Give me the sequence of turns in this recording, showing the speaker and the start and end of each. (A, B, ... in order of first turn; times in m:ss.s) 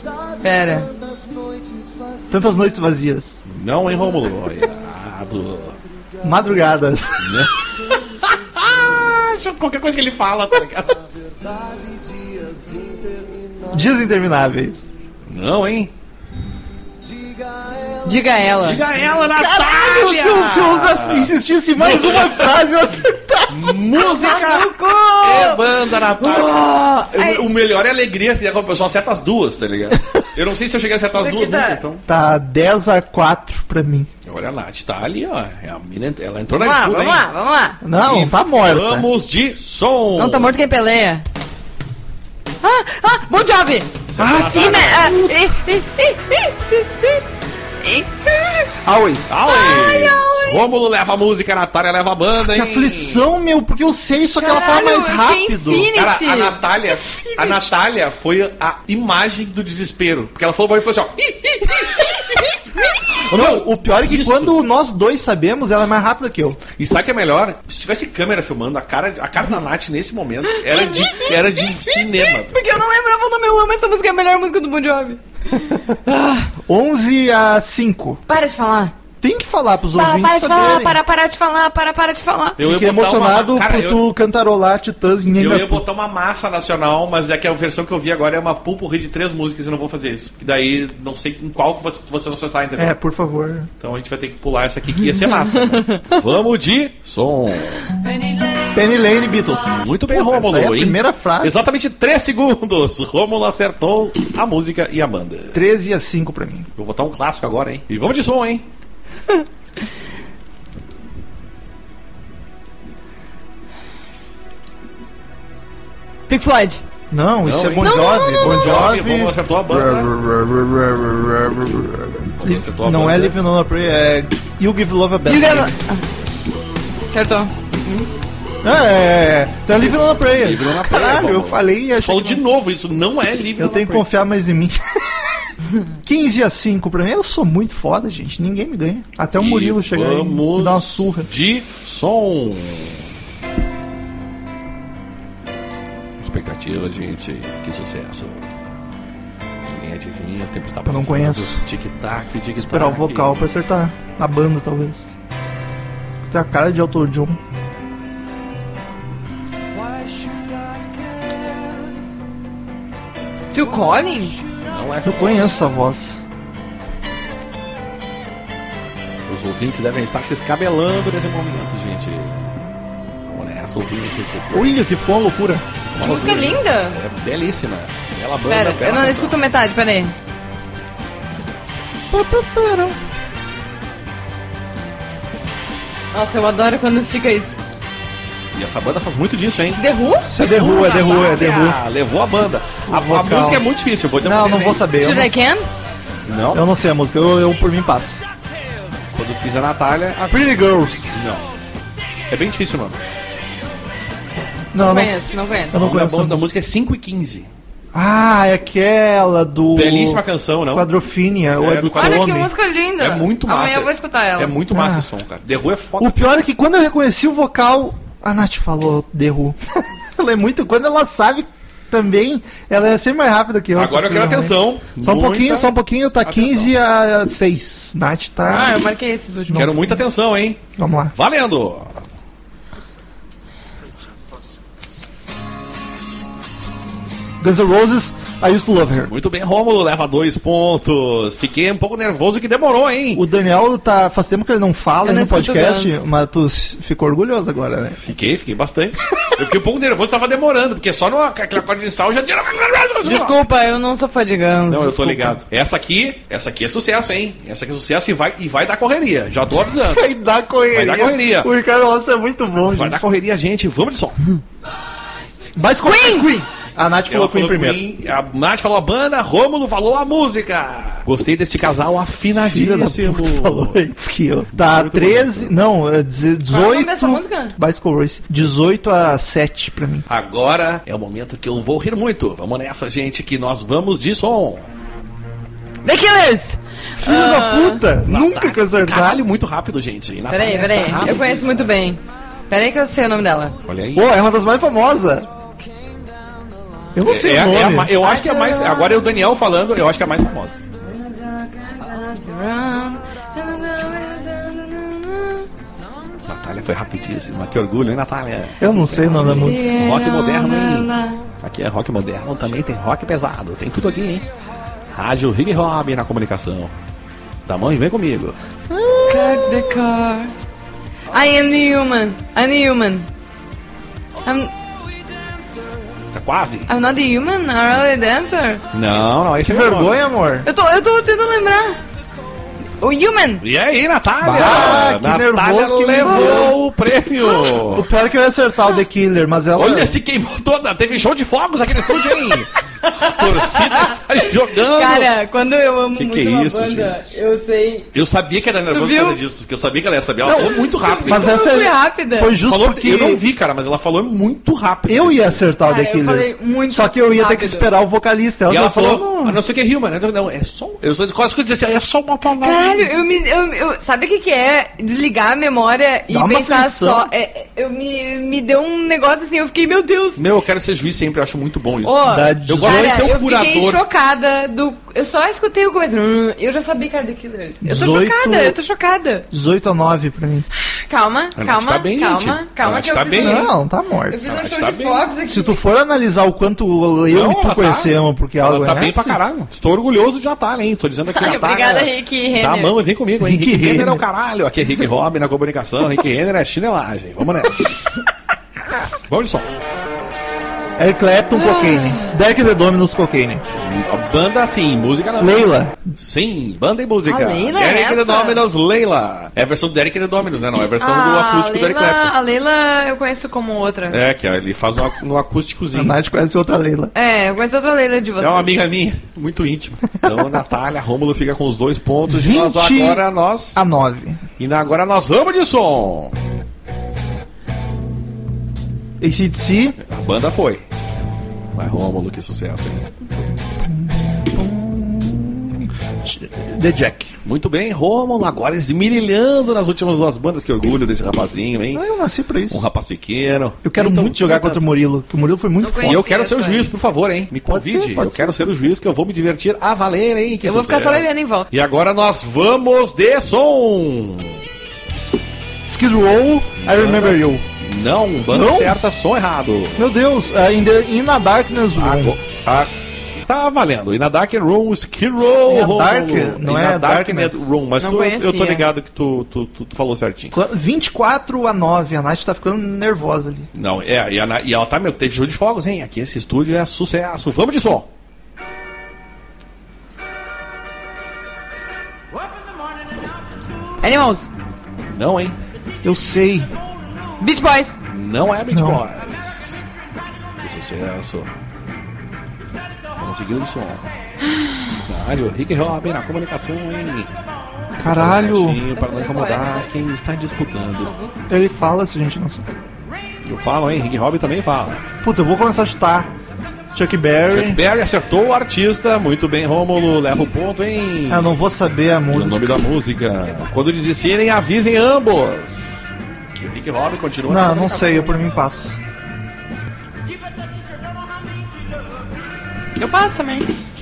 0:00.4-0:00.9 A
0:02.3-0:03.4 B
0:03.5-0:05.8 C
0:06.2-0:07.3 B
0:07.2-0:11.0 C
0:13.7-0:14.9 B
0:15.3-0:15.9 C
0:18.0-0:18.8 A
0:18.6-0:22.6 C
0:19.3-0:23.7 B
0:23.5-0:32.0 C
0:24.0-0:27.4 A
0:31.2-0:31.8 A
0:32.1-0:34.1 B
0:34.2-0:37.3 C
0:36.6-0:37.8 A
0:37.8-0:39.1 B
0:38.0-0:40.5 C
0:40.2-0:41.2 A
0:42.6-0:43.9 A
0:44.1-0:45.2 C
0:44.2-0:45.4 B
0:44.5-0:47.2 A
0:47.8-0:48.7 A
0:48.8-0:49.4 B
0:49.3-0:53.3 C
0:49.4-0:50.6 A
0:52.4-0:55.9 B
0:54.4-0:56.6 A
0:56.0-1:02.1 C
0:57.0-0:57.7 B
1:01.5-1:03.0 A
1:03.2-1:04.6 C
1:03.3-1:06.6 B
1:06.8-1:12.6 C
1:10.6-1:16.5 A
1:16.7-1:18.2 B
1:18.3-1:18.9 A
1:19.2-1:21.0 B
1:19.9-1:22.6 A
1:22.6-1:24.1 C
1:22.6-1:25.8 B
1:25.4-1:33.0 C
1:32.8-1:33.7 B
1:33.8-1:37.9 C
1:38.3-1:38.6 A
1:38.7-1:41.6 B
1:39.7-1:45.6 C
1:45.5-1:46.7 B
1:46.8-1:48.7 C
1:56.3-1:56.8 A
1:57.1-2:05.7 B
1:57.4-2:00.1 C
1:57.8-1:58.6 A
2:02.4-2:03.4 C
2:05.3-2:06.0 A
2:07.1-2:08.1 A
2:08.6-2:12.4 B
2:10.1-2:14.1 C
2:13.6-2:15.4 B
2:16.0-2:21.3 B
2:19.4-2:23.0 C
2:26.2-2:28.5 C
2:29.7-2:33.4 C
2:30.9-2:31.6 B
2:32.6-2:35.1 B
2:36.2-2:37.4 B
2:43.5-2:44.5 A
2:44.6-2:45.5 C
2:45.0-2:46.2 B
2:49.3-2:52.6 C
2:53.3-2:54.7 C
2:54.5-2:55.6 B
2:55.9-2:59.4 C
2:56.0-2:57.0 A
2:58.5-3:00.1 A
3:02.1-3:03.0 B
3:06.1-3:07.6 A
3:08.5-3:09.8 C
3:09.8-3:10.3 A
3:10.3-3:11.8 B
3:10.4-3:14.9 C
3:12.9-3:13.6 B
3:14.2-3:15.4 B
3:15.0-3:15.7 A
3:16.2-3:16.6 C
3:16.5-3:18.2 B
3:19.1-3:20.6 C
3:20.3-3:21.2 B
3:21.1-3:21.5 C
3:22.3-3:23.0 C
3:24.7-3:25.2 B
3:24.8-3:25.8 A
3:25.7-3:26.5 B
3:25.7-3:27.5 C
3:27.9-3:32.5 B
3:29.7-3:30.9 C
3:31.6-3:32.5 C
3:32.0-3:34.6 A
3:33.0-3:36.2 C
3:34.7-3:35.1 B
3:36.0-3:48.8 B
3:43.7-3:46.7 C
3:48.5-3:49.9 A
3:49.5-3:50.0 B
3:49.5-3:50.6 C
3:50.8-3:51.1 B
3:51.1-3:52.0 C
3:57.4-3:59.1 B
3:59.0-4:03.2 C
4:03.2-4:08.0 B
4:05.0-4:06.1 A
4:08.0-4:13.4 C
4:13.0-4:15.4 A
4:14.7-4:20.1 C
4:19.7-4:23.0 B
4:20.7-4:21.5 C
4:22.7-4:24.2 C
4:25.6-4:27.8 B
4:25.8-4:26.3 A
4:27.1-4:33.8 C
4:32.4-4:40.0 B
4:34.5-4:35.5 C
4:36.5-4:37.6 A
4:40.1-4:44.7 C
4:45.8-4:47.8 A
4:47.0-4:49.2 B
4:48.1-4:51.7 C
4:50.3-4:53.6 A
4:53.6-4:54.1 C
4:54.0-4:55.3 B
4:57.0-4:58.0 B
4:57.0-5:00.6 C
4:58.0-4:59.2 A
5:00.8-5:05.5 A
5:06.2-5:14.3 C
5:08.6-5:09.7 B
5:09.2-5:11.2 A
5:14.9-5:16.7 C
5:17.5-5:18.4 C
5:18.7-5:19.7 B
5:19.1-5:20.3 A
5:21.1-5:23.1 A
5:24.2-5:24.5 A
5:26.1-5:26.7 C
5:26.7-5:28.6 A
5:28.7-5:30.0 C
5:29.4-5:30.5 B
5:30.4-5:31.8 A
5:32.8-5:33.4 A
5:33.4-5:37.9 C
5:34.2-5:36.5 B
5:36.0-5:36.6 A
5:37.2-5:37.6 A
5:37.7-5:40.0 B
5:39.6-5:45.1 C
5:42.0-5:47.9 A
5:46.0-5:47.0 C
5:47.9-5:51.4 C
5:48.7-5:49.2 A
5:50.2-5:53.2 B
5:50.4-5:52.4 A
5:52.4-5:55.4 C
5:54.9-5:59.4 B
5:55.6-5:57.7 A
5:58.5-6:02.9 C
6:02.4-6:10.2 A
6:06.1-6:07.1 B
6:10.2-6:13.8 C
6:11.8-6:19.3 A
6:12.1-6:13.1 B
6:17.6-6:18.6 B
6:19.3-6:20.5 B
6:20.9-6:23.5 A
6:21.4-6:23.5 C
6:23.2-6:24.2 B
6:24.1-6:25.6 A
6:24.3-6:25.0 C
6:25.3-6:29.2 B
6:27.1-6:37.8 C
6:31.1-6:32.7 A
6:33.2-6:34.0 B
6:39.1-6:39.5 C
6:40.8-6:43.4 B
6:41.3-6:42.2 A
6:43.6-6:52.1 C
6:45.2-6:45.8 B
6:47.1-6:48.4 A
6:50.8-6:54.0 A
6:53.9-6:56.0 C
6:55.7-6:56.9 B
6:56.9-6:58.6 A
6:58.2-7:03.6 C
7:02.1-7:04.2 B
7:04.4-7:06.2 C
7:09.0-7:09.8 B
7:09.8-7:10.6 C
7:11.5-7:12.8 C
7:13.5-7:17.1 B
7:17.2-7:21.8 C
7:21.7-7:22.6 B
7:22.5-7:24.6 C
7:23.6-7:26.0 B
7:25.6-7:26.7 A
7:25.8-7:34.4 C
7:27.5-7:28.4 B
7:30.4-7:31.5 A
7:35.7-7:37.4 B
7:36.6-7:39.9 C
7:38.3-7:38.8 B
7:39.8-7:42.2 B
7:41.8-7:50.4 C
7:45.5-7:47.6 B
7:47.8-7:48.7 A
7:50.3-7:53.5 B
7:53.5-7:57.9 C
8:03.8-8:04.3 A
8:04.9-8:05.4 C
8:05.8-8:06.5 B
8:07.2-8:07.8 A
8:07.9-8:09.6 C
8:08.5-8:08.8 B
8:10.4-8:11.3 C
8:13.0-8:13.8 C
8:14.9-8:17.1 C
8:17.8-8:18.6 B
8:17.8-8:20.9 C
8:18.7-8:19.7 A
8:20.8-8:21.3 A
8:21.3-8:22.5 B
8:23.2-8:24.8 C
8:25.0-8:26.1 B
8:26.7-8:27.6 B
8:27.3-8:31.4 C
8:31.1-8:32.6 B
8:32.1-8:38.2 C
8:37.3-8:38.8 B
8:42.8-8:43.6 A